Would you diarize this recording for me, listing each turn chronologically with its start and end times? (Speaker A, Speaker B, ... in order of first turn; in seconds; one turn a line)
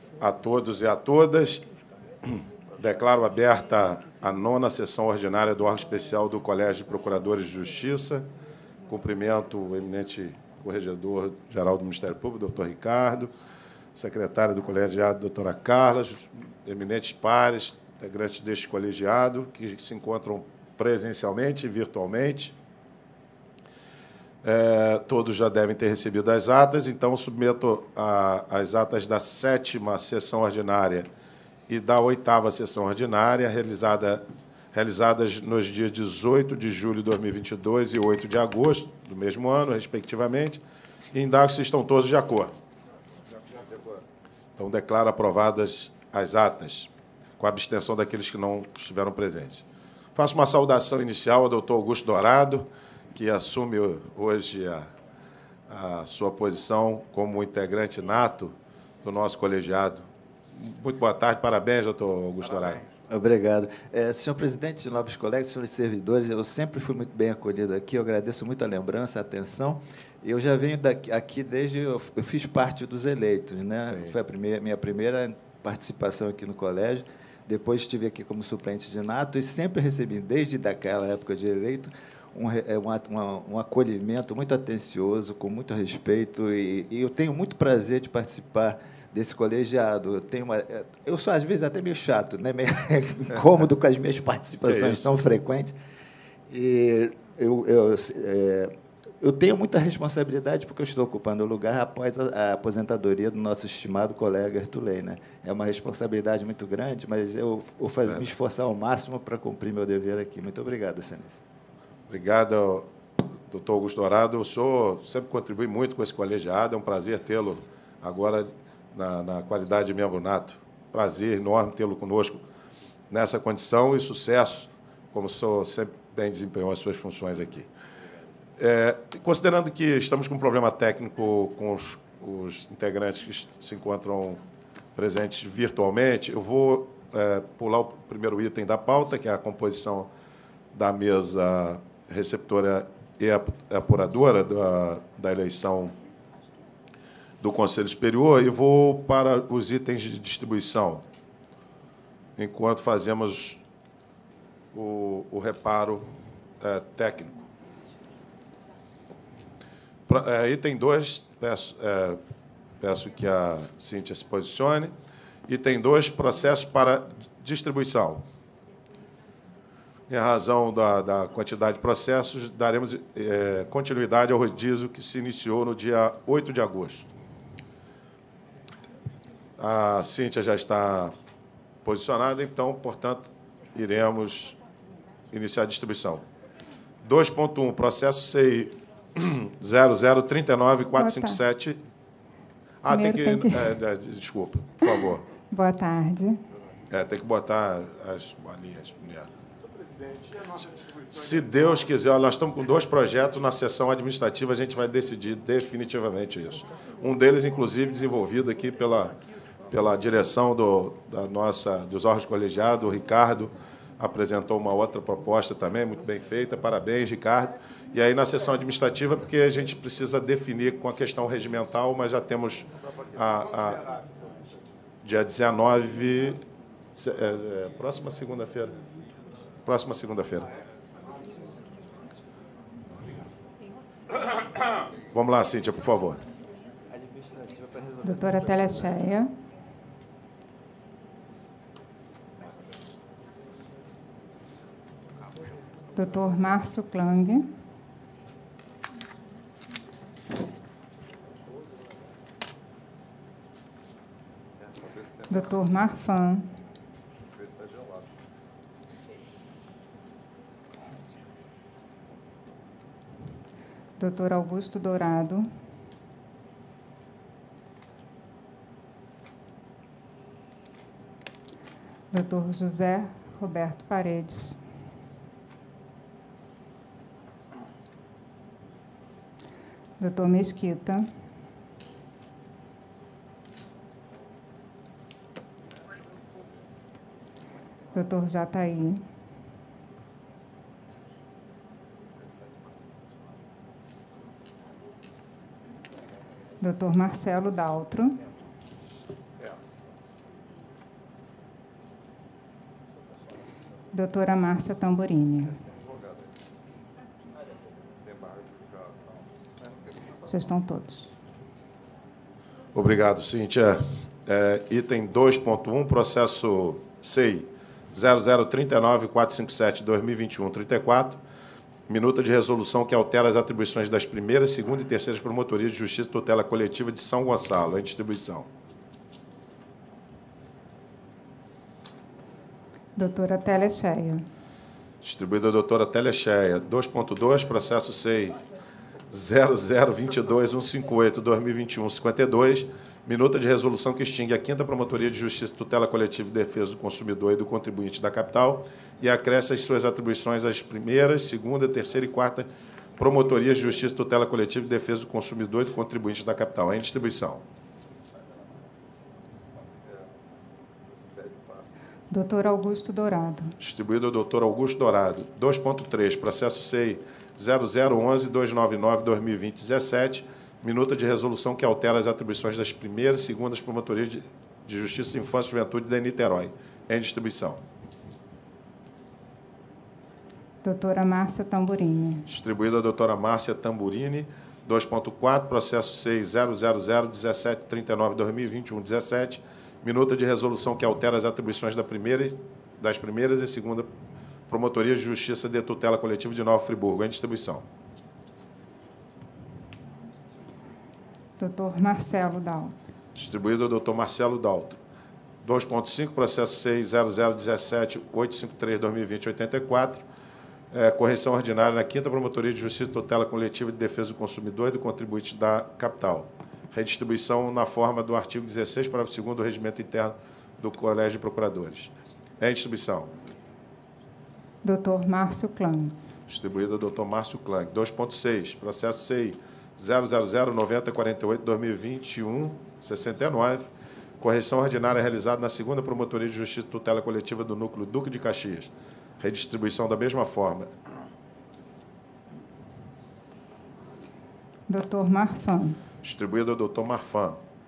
Speaker A: 0.2-1.7
Speaker A: 2.2-8.3
Speaker A: 8.9-13.3
Speaker A: 13.9-22.6
Speaker A: 24.4-31.1
Speaker A: 31.7-40.6
Speaker A: 41.1-42.6
Speaker A: 44.6-49.6
Speaker A: 50.1-54.9
Speaker A: 55.7-62.8
Speaker B: 63.1-95.8
Speaker A: 73.8-74.2
Speaker A: 94.6-95.2
Speaker B: 96.5-111.4
Speaker A: 108.1-108.3
Speaker A: 112.1-112.9
Speaker A: 113.5-122.4
Speaker A: 123.1-127.7
Speaker A: 128.6-134.4
Speaker A: 135.0-140.1
Speaker A: 140.7-146.0
Speaker A: 147.4-151.0
Speaker A: 152.4-153.6
Speaker A: 154.7-156.1
Speaker A: 156.6-157.4
Speaker A: 160.1-162.2
Speaker A: 162.8-164.9
Speaker A: 165.5-168.2
Speaker A: 170.1-177.1
Speaker A: 179.6-181.2
Speaker A: 181.8-184.6
Speaker A: 185.3-186.2
Speaker A: 187.0-191.8
Speaker C: 191.0-191.4
Speaker A: 192.8-195.2
Speaker C: 192.9-193.8
Speaker C: 195.5-196.4
Speaker A: 196.9-199.3
Speaker A: 200.6-209.2
Speaker A: 209.7-223.9
Speaker A: 225.0-226.4
Speaker A: 227.0-228.8
Speaker A: 229.6-230.5
Speaker A: 235.1-236.2
Speaker B: 236.9-239.0
Speaker C: 238.0-239.3
Speaker C: 245.9-247.5
Speaker C: 255.3-256.6
Speaker C: 264.0-265.5
Speaker C: 272.1-274.6
Speaker C: 280.0-281.1
Speaker C: 287.9-289.0
Speaker C: 296.6-298.2
Speaker C: 303.9-305.6
Speaker C: 310.2-311.1
Speaker A: 312.7-321.2
Speaker A: 321.9-328.5
Speaker C: 333.0-334.2
Speaker A: 335.0-338.4
Speaker A: 339.1-357.4
Speaker C: 362.1-363.6
Speaker A: 363.6-377.6
Speaker C: 380.6-382.3
Speaker A: 382.3-393.9
Speaker A: 394.5-397.6
Speaker C: 401.4-402.8
Speaker A: 403.1-404.8
Speaker A: 405.4-410.1
Speaker A: 410.7-423.1
Speaker C: 424.6-426.0
Speaker A: 426.3-433.7
Speaker A: 434.2-440.7
Speaker C: 444.7-445.8
Speaker A: 446.0-447.4